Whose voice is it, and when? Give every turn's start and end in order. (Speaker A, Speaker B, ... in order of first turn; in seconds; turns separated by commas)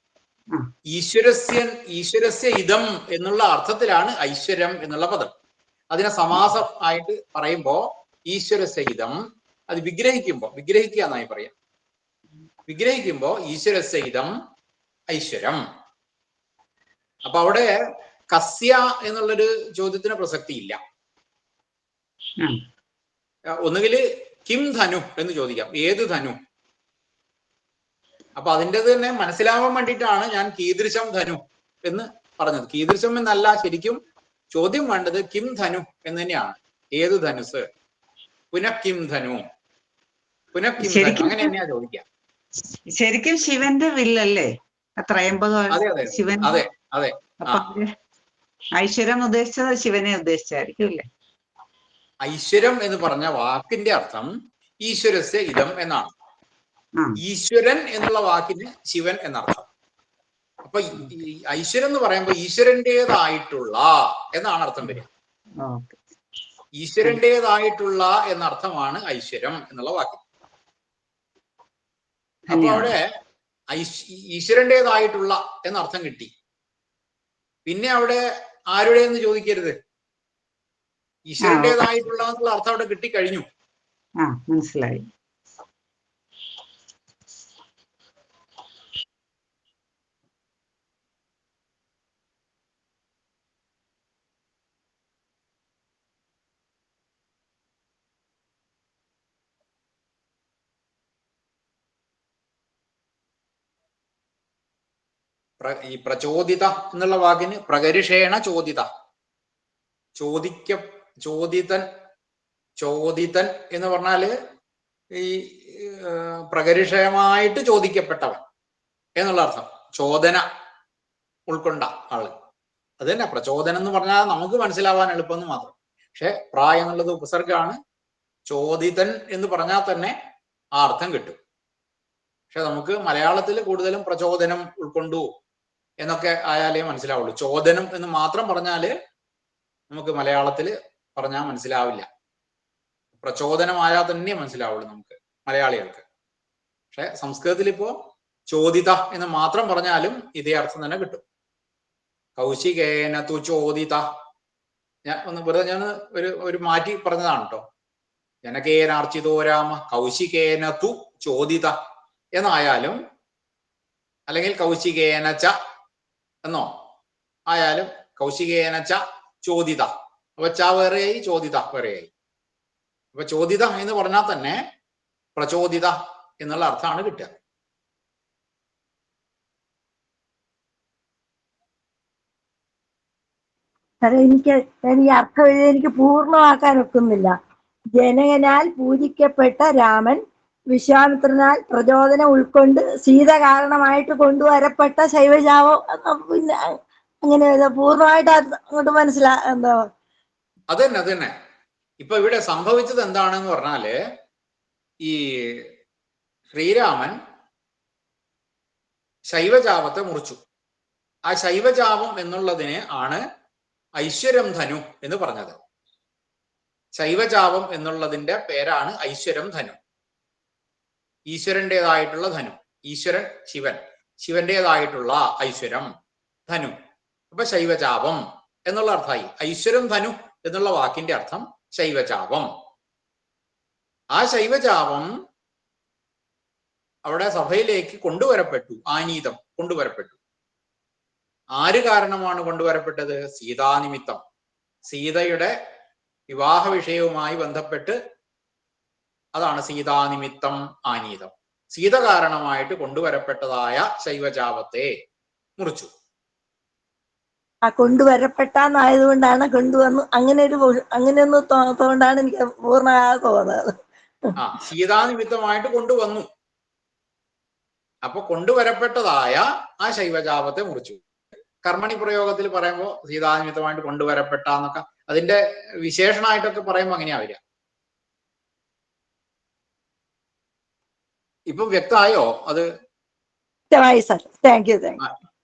Speaker A: 0.9-5.3, Speaker A: 5.9-9.2, Speaker A: 9.7-11.5, Speaker A: 12.7-14.3, Speaker A: 15.1-15.6, Speaker A: 17.2-17.7, Speaker A: 18.3-20.8, Speaker A: 23.6-26.4, Speaker A: 28.4-34.0, Speaker A: 34.5-37.7, Speaker A: 38.5-39.4, Speaker A: 40.5-42.0, Speaker B: 40.8-41.5, Speaker B: 42.9-46.6, Speaker A: 45.7-47.7, Speaker B: 47.4-47.9, Speaker B: 48.8-51.0, Speaker A: 52.2-54.3, Speaker A: 54.8-56.1, Speaker A: 57.2-59.7, Speaker A: 60.6-65.1, Speaker B: 65.6-66.0, Speaker A: 66.8-70.2, Speaker B: 72.5-72.9, Speaker A: 72.5-73.1, Speaker A: 73.7-76.3, Speaker A: 77.7-79.8, Speaker A: 81.3-83.4, Speaker B: 81.4-81.9, Speaker B: 84.2-85.1, Speaker A: 105.6-108.9, Speaker A: 110.2-111.9, Speaker A: 112.8-114.3, Speaker A: 115.1-118.4, Speaker A: 119.2-120.4, Speaker A: 121.5-122.3, Speaker A: 123.0-127.8, Speaker A: 128.5-130.2, Speaker A: 130.8-131.4, Speaker A: 132.5-135.3, Speaker A: 136.0-138.9, Speaker A: 139.9-142.1, Speaker A: 143.2-146.0, Speaker A: 146.9-147.9, Speaker A: 148.5-151.2, Speaker A: 152.4-154.1, Speaker A: 155.1-157.6, Speaker A: 158.4-161.8, Speaker A: 162.4-163.0, Speaker A: 164.3-165.5, Speaker A: 166.4-166.7, Speaker A: 167.5-172.1, Speaker A: 173.1-174.6, Speaker A: 175.4-177.3, Speaker C: 184.0-187.3, Speaker C: 188.0-199.9, Speaker A: 200.7-201.3, Speaker A: 202.0-203.9, Speaker A: 205.0-205.7, Speaker A: 206.5-207.1, Speaker A: 209.3-210.4, Speaker A: 211.3-213.2, Speaker A: 214.0-215.6, Speaker A: 217.0-219.8, Speaker A: 221.3-225.9, Speaker A: 226.5-226.8, Speaker A: 227.3-232.5, Speaker A: 234.1-235.1, Speaker A: 237.0-240.2, Speaker A: 241.6-244.2, Speaker A: 244.9-245.5, Speaker A: 246.3-248.0, Speaker A: 249.3-254.9, Speaker A: 255.6-255.9, Speaker C: 257.7-264.3, Speaker A: 264.4-266.3, Speaker A: 268.0-271.0, Speaker A: 271.6-277.4, Speaker A: 281.5-282.7, Speaker C: 283.7-285.0